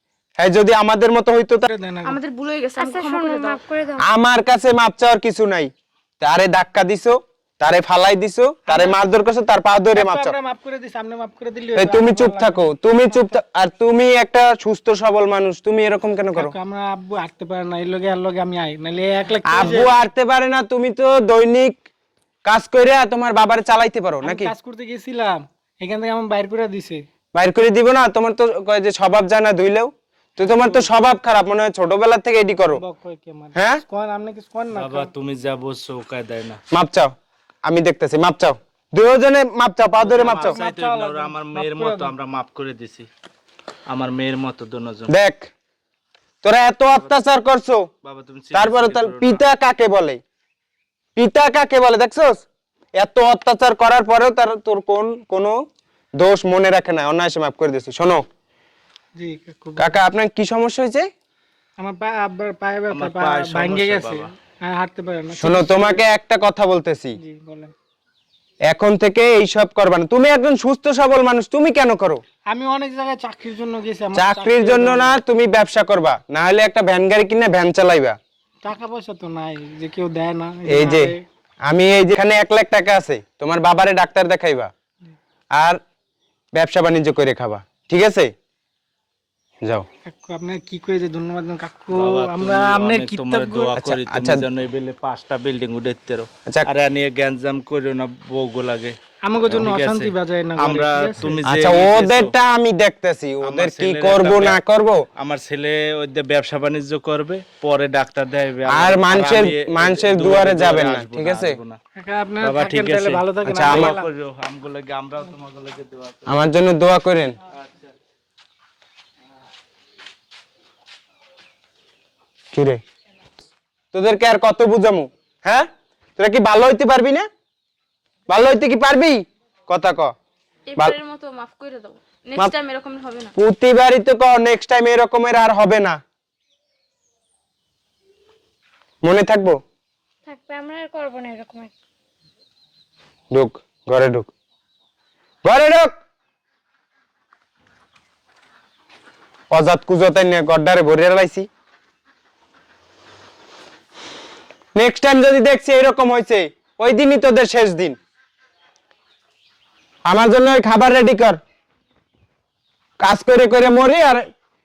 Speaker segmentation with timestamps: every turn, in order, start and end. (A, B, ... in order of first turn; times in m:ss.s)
0:00.4-0:01.7 A
0:01.7-0:02.2 B
0:02.0-0:03.6 C
0:02.8-0:04.1 D
0:04.0-0:10.4 A
0:08.7-0:09.0 B
0:10.0-0:13.4 B
0:11.8-0:16.5 A
0:16.4-0:19.9 B
0:19.5-0:21.8 A
0:22.4-0:24.5 A
0:24.2-0:27.0 B
0:27.3-0:32.8 A
0:30.5-0:30.9 B
0:32.6-0:35.1 B
0:33.6-0:33.8 A
0:34.7-0:36.6 E
0:36.7-0:37.1 A
0:37.6-0:40.6 A
0:40.0-0:43.1 E
0:40.1-0:42.1 B
0:43.9-0:45.1 E
0:45.1-0:45.5 A
0:46.4-0:47.9 A
0:48.0-0:49.4 E
0:48.5-0:50.2 A
0:51.2-0:52.4 A
0:53.0-0:55.6 A
0:56.2-0:58.2 A
0:59.2-1:00.0 B
0:59.8-1:01.1 A
1:01.8-1:06.0 B
1:02.9-1:04.2 E
1:05.4-1:07.2 A
1:07.2-1:07.7 B
1:08.7-1:12.2 A
1:12.5-1:15.2 B
1:14.1-1:18.2 A
1:18.6-1:21.2 B
1:20.7-1:21.1 A
1:21.7-1:24.7 A
1:26.6-1:28.3 A
1:30.1-1:33.8 B
1:31.9-1:42.3 E
1:33.8-1:34.4 A
1:39.2-1:41.4 B
1:41.4-1:45.0 A
1:43.4-1:44.6 E
1:45.2-1:51.8 E
1:48.7-1:51.6 A
1:52.0-1:54.1 B
1:52.4-1:56.4 E
1:53.5-1:53.9 A
1:56.3-1:57.4 A
1:57.5-1:57.9 E
2:02.5-2:02.8 A
2:03.9-2:07.3 A
2:08.3-2:10.1 A
2:10.7-2:13.3 C
2:13.4-2:16.0 A
2:19.0-2:19.6 A
2:20.3-2:21.7 D
2:23.3-2:24.3 A
2:25.4-2:26.0 A
2:29.5-2:31.5 A
2:34.8-2:38.0 A
2:40.1-2:41.4 A
2:43.0-2:44.2 A